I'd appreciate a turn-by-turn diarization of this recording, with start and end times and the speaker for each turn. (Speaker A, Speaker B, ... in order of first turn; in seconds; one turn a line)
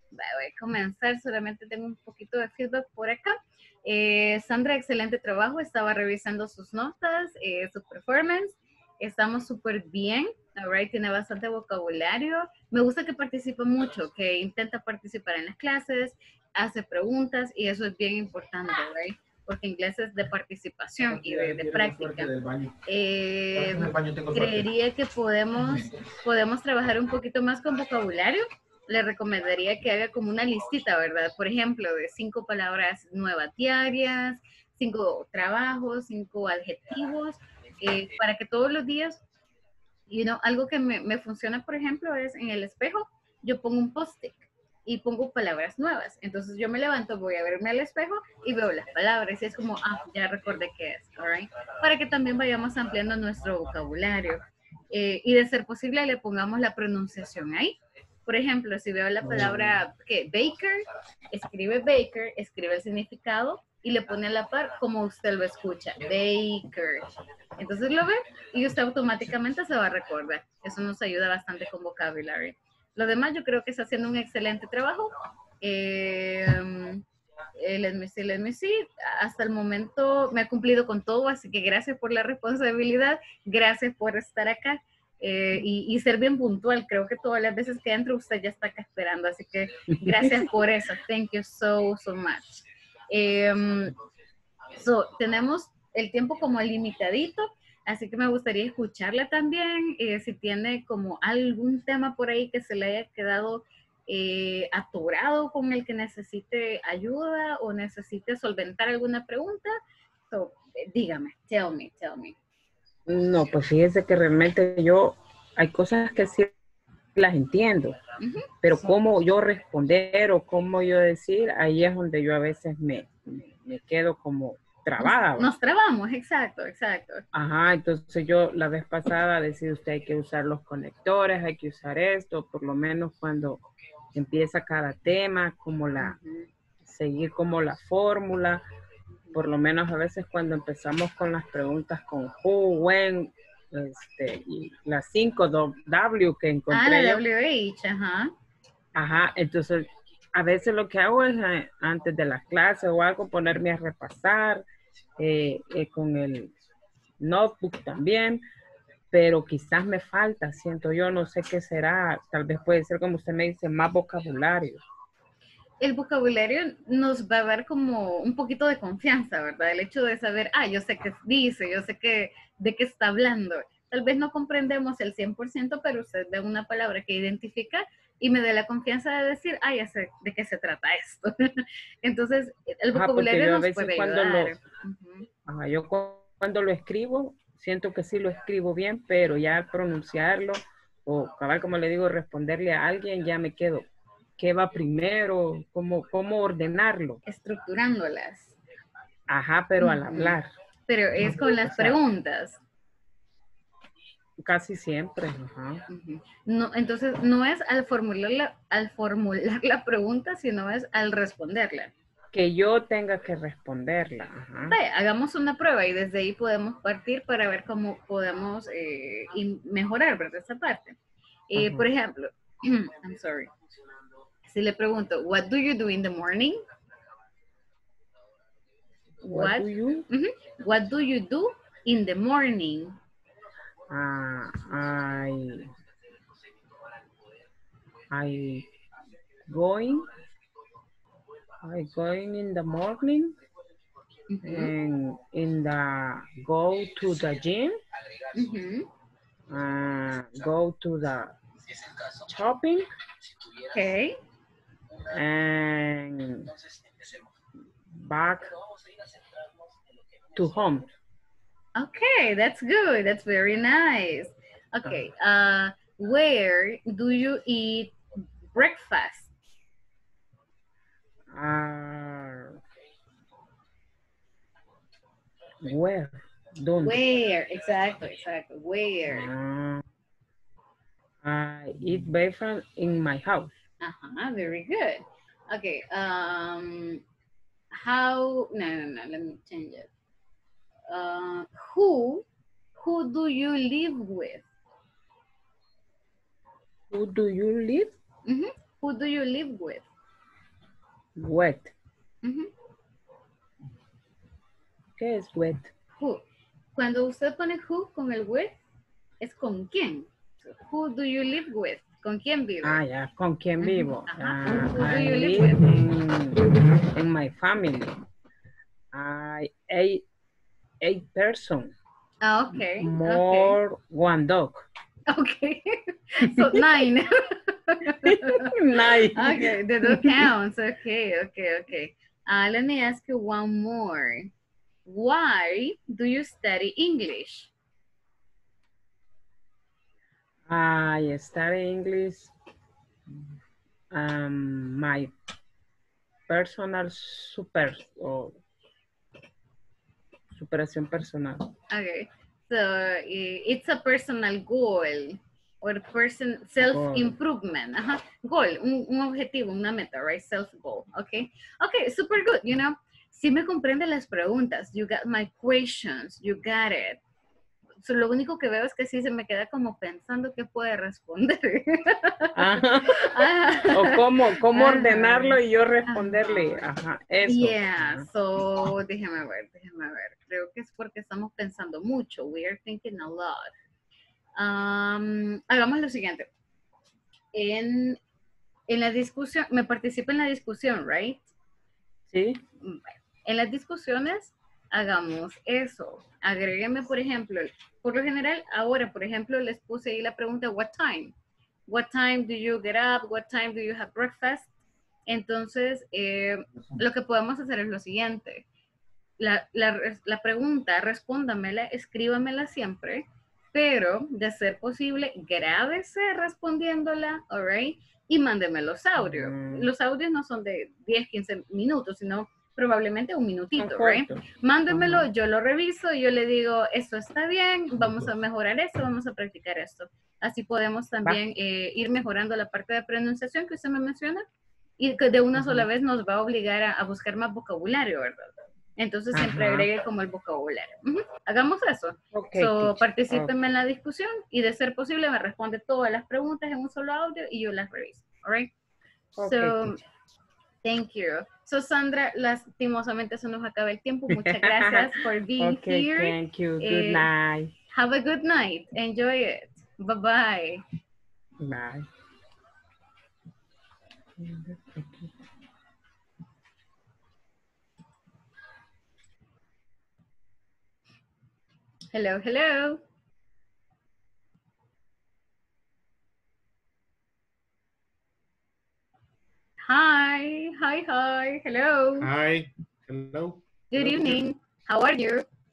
Speaker A: 0.1-22.3
Speaker B: 21.0-22.8
Speaker A: 22.8-39.2
Speaker B: 23.7-24.6
Speaker A: 40.1-94.0
Speaker C: 59.2-59.7
Speaker C: 90.0-90.4
Speaker A: 94.7-109.8
Speaker A: 110.3-112.4
Speaker C: 113.1-116.5
Speaker C: 117.2-118.0
Speaker A: 118.2-118.5
Speaker C: 118.6-125.5
Speaker A: 125.0-127.2
Speaker C: 127.3-133.6
Speaker C: 134.1-136.2
Speaker A: 136.0-136.5
Speaker C: 136.9-138.6
Speaker C: 139.3-147.2
Speaker A: 146.7-148.3
Speaker C: 148.9-154.6
Speaker C: 155.2-156.5
Speaker C: 157.2-158.4
Speaker C: 159.1-164.8
Speaker A: 165.8-185.3
Speaker C: 182.9-184.6
Speaker C: 185.5-197.2
Speaker A: 197.2-198.6
Speaker C: 199.3-200.5
Speaker A: 199.8-202.6
Speaker C: 201.2-202.0
Speaker C: 204.4-205.9
Speaker A: 205.9-211.9
Speaker C: 212.3-214.8
Speaker A: 214.7-221.0
Speaker A: 221.5-223.5
Speaker C: 221.6-221.9
Speaker A: 224.5-226.6
Speaker A: 229.2-233.0
Speaker C: 229.3-230.1
Speaker C: 233.9-235.7
Speaker C: 238.1-238.7
Speaker C: 239.5-240.1
Speaker C: 241.6-243.3
Speaker A: 244.3-244.7
Speaker C: 244.4-247.8
Speaker A: 248.3-248.9
Speaker C: 249.5-251.4
Speaker C: 252.3-252.9
Speaker A: 253.7-254.2
Speaker C: 255.1-256.5
Speaker C: 257.9-258.5
Speaker C: 260.4-260.9
Speaker A: 261.8-267.9
Speaker A: 268.5-269.3
Speaker C: 271.3-272.6
Speaker C: 275.6-277.0
Speaker A: 276.8-279.3
Speaker C: 279.1-279.8
Speaker C: 281.2-283.5
Speaker A: 283.8-287.0
Speaker A: 287.7-289.9
Speaker A: 290.9-292.2
Speaker A: 292.8-294.5
Speaker C: 296.9-297.9
Speaker A: 298.3-299.9
Speaker C: 301.2-301.7
Speaker A: 302.2-302.5
Speaker C: 305.0-305.7
Speaker A: 306.0-306.2
Speaker A: 306.8-308.6
Speaker A: 309.2-312.8
Speaker C: 312.6-318.0
Speaker A: 313.6-315.7
Speaker C: 318.9-320.1
Speaker C: 320.8-321.7
Speaker A: 322.2-323.6
Speaker C: 322.8-324.7
Speaker A: 325.1-328.5
Speaker C: 326.3-326.8
Speaker C: 328.1-330.3
Speaker A: 329.1-334.3
Speaker A: 334.9-337.5
Speaker C: 340.5-342.3
Speaker C: 343.9-345.1
Speaker C: 346.3-348.4
Speaker C: 350.3-351.5
Speaker A: 351.7-367.0
Speaker C: 356.6-357.1
Speaker A: 367.8-376.7
Speaker C: 372.4-378.1
Speaker A: 377.3-383.5
Speaker A: 384.4-386.3
Speaker A: 387.3-388.0
Speaker A: 388.7-391.3
Speaker C: 392.1-392.4
Speaker A: 392.6-401.1
Speaker A: 401.7-404.5
Speaker A: 405.1-408.5
Speaker A: 409.2-434.3
Speaker C: 419.0-419.7
Speaker C: 423.6-425.1
Speaker B: 427.8-428.1
Speaker A: 434.8-448.5
Speaker C: 435.4-435.7
Speaker C: 439.1-439.7
Speaker C: 442.1-443.3
Speaker C: 449.2-449.8
Speaker A: 449.2-449.8
Speaker A: 450.6-457.1
Speaker C: 454.1-457.5
Speaker A: 457.7-460.6
Speaker C: 461.4-461.9
Speaker C: 464.2-465.1
Speaker A: 471.9-472.8
Speaker A: 479.7-482.1
Speaker B: 482.0-484.2
Speaker A: 483.7-485.3